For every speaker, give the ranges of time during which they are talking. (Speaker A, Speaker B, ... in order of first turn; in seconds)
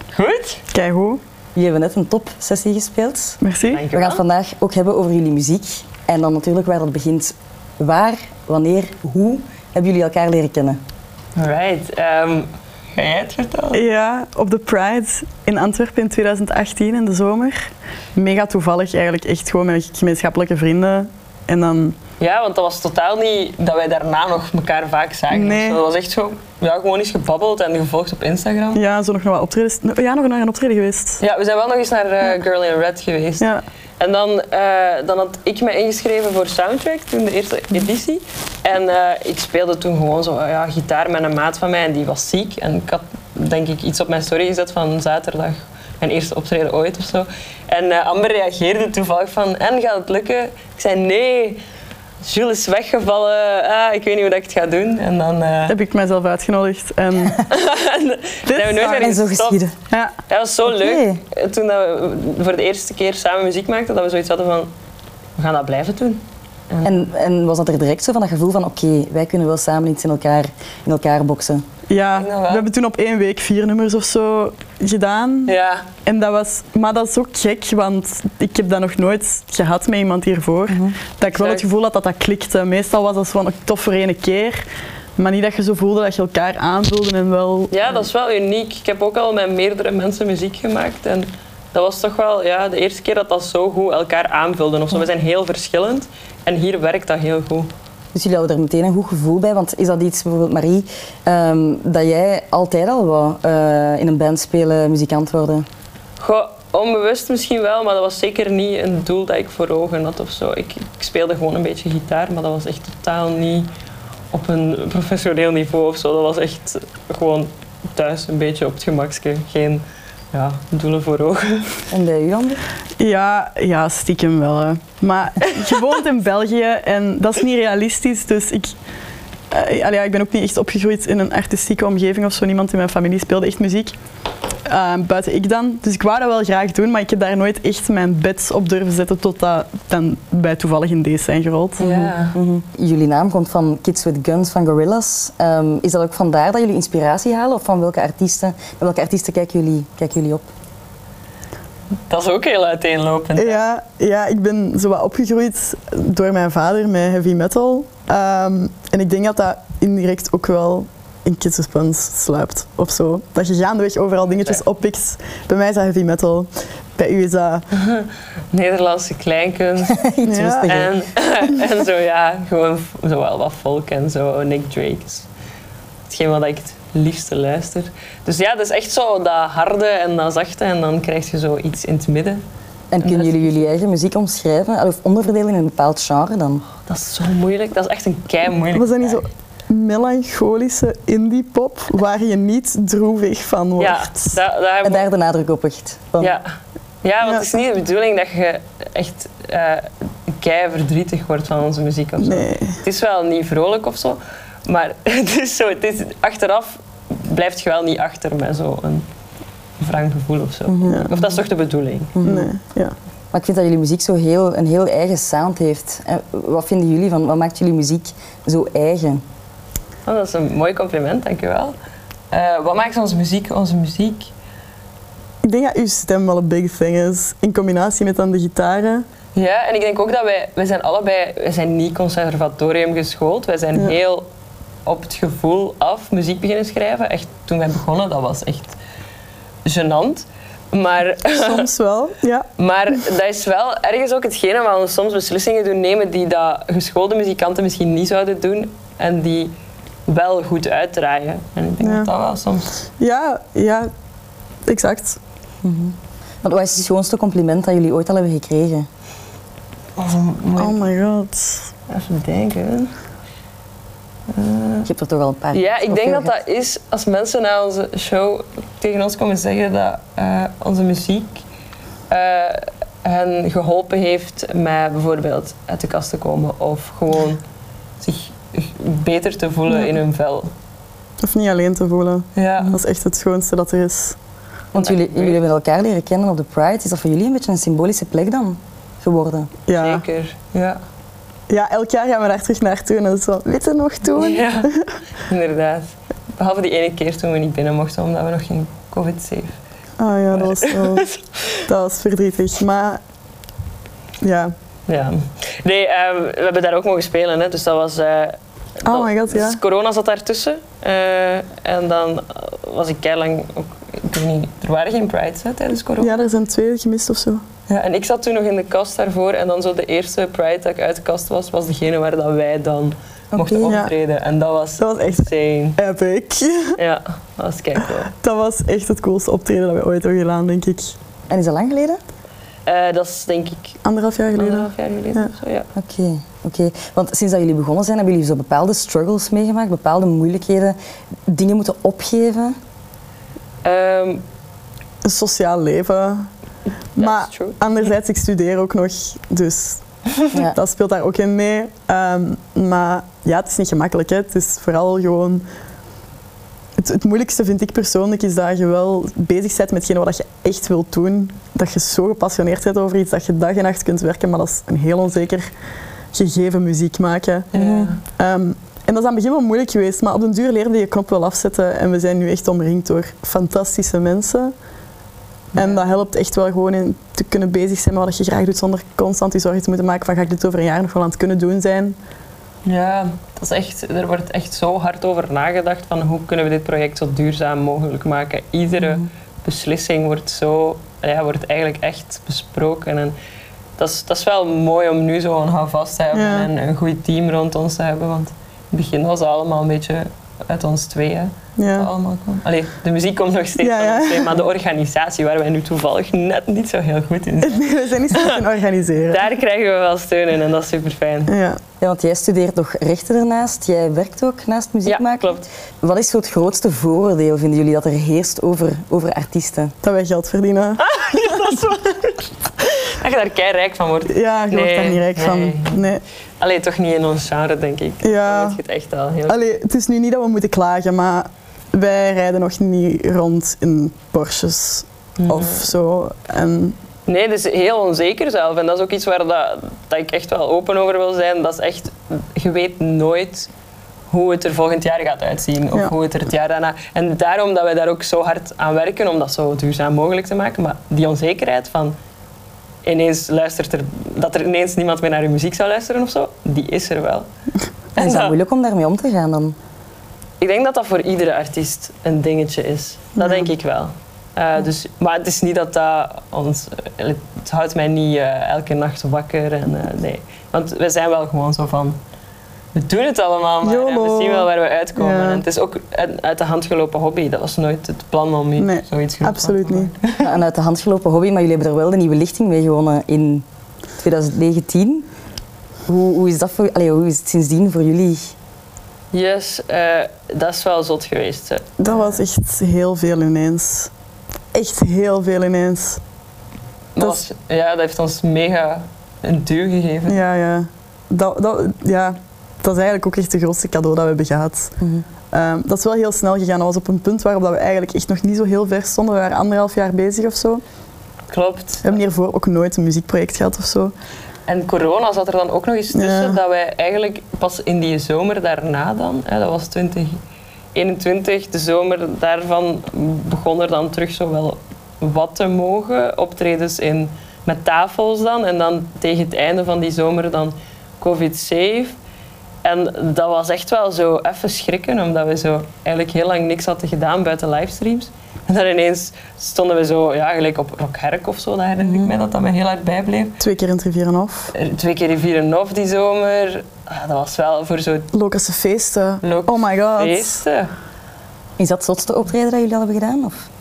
Speaker A: 0.1-0.6, 3.7-4.2, 11.3-13.8, 22.2-28.8, 31.2-33.5, 34.0-51.6, 52.2-55.8, 57.4-59.6, 60.3-64.7, 65.4-67.0, 72.1-72.7, 75.5-75.8, 81.2-81.6, 87.7-97.7, 106.2-113.7, 114.3-121.8, 141.8-142.3, 152.1-153.6, 164.3-164.6, 167.7-170.1, 170.6-175.3, 176.1-182.4, 183.0-183.7, 186.8-189.2, 193.8-195.1, 196.2-196.4, 197.0-209.1, 209.8-212.2, 220.1-221.7, 222.3-224.3, 229.3-234.2, 234.8-238.8, 239.6-241.7, 242.6-249.5, 250.1-252.8, 260.0-260.9, 261.9-262.9, 264.3-264.9, 265.5-271.4, 272.1-277.4, 278.0-280.5, 282.3-282.8, 284.7-285.4, 289.7-290.8, 294.2-294.7, 295.3-299.6, 300.3-301.2, 304.9-316.2, 317.7-325.8, 326.8-328.1, 332.6-333.8, 334.4-335.7, 343.6-344.2, 347.0-347.6, 367.5-368.0, 375.5-375.8, 382.6-393.1, 393.8-408.4, 409.1-411.3, 414.9-415.4, 420.8-425.8, 426.4-429.4, 435.2-435.6, 437.1-443.5, 444.1-451.9, 452.8-457.3, 457.9-458.4, 460.4-472.0, 472.7-480.3, 489.1-492.1, 496.9-500.2, 511.3-512.0, 514.5-520.2, 520.7-532.0, 532.6-543.4, 544.5-548.1, 549.2-550.7
Speaker B: 0.7-1.2, 3.4-3.8, 13.7-21.9, 25.3-25.8, 28.7-31.2, 55.7-57.5, 58.5-59.2, 59.9-60.1, 71.9-75.5, 76.0-84.6, 85.2-87.7, 123.0-128.7, 129.5-133.9, 134.7-141.9, 153.4-167.7, 170.2-170.8, 188.7-194.4, 202.2-202.8, 212.2-212.9, 225.4-229.0, 241.2-243.0, 251.8-252.1, 253.0-253.9, 254.7-255.2, 260.6-261.7, 281.2-284.1, 289.7-290.0, 291.5-294.9, 300.0-301.1, 301.6-303.0, 304.2-304.5, 308.8-309.6, 316.0-317.4, 323.6-323.9, 324.8-326.8, 328.1-330.9, 333.8-335.3, 345.0-346.3, 347.0-355.4, 356.8-365.5, 366.1-367.5, 368.1-374.5, 375.5-382.0, 396.1-396.5, 401.6-401.9, 403.6-404.4, 407.4-409.3, 411.3-411.6, 419.8-421.5, 424.1-426.0, 428.0-428.6, 429.3-436.8, 463.2-463.4, 473.6-475.4, 478.6-479.9, 491.8-493.9, 494.5-496.0, 500.1-504.8, 505.3-510.6, 511.8-513.9, 515.9-516.4, 543.4-544.5, 548.1-550.4
Speaker C: 1.5-3.4, 3.9-10.8, 59.0-59.7, 60.7-61.2, 66.8-71.6, 80.7-81.0, 98.1-105.7, 121.9-122.6, 141.8-150.5, 169.9-170.9, 182.9-186.6, 194.8-196.3, 210.7-211.4, 212.1-212.5, 213.3-219.2, 255.6-258.9, 264.9-266.3, 284.7-289.5, 323.3-323.8, 331.3-332.0, 335.7-340.8, 341.3-342.6, 367.5-367.9, 411.8-419.7, 458.0-459.6, 480.2-483.4, 484.0-485.1, 485.9-488.3, 551.6-553.5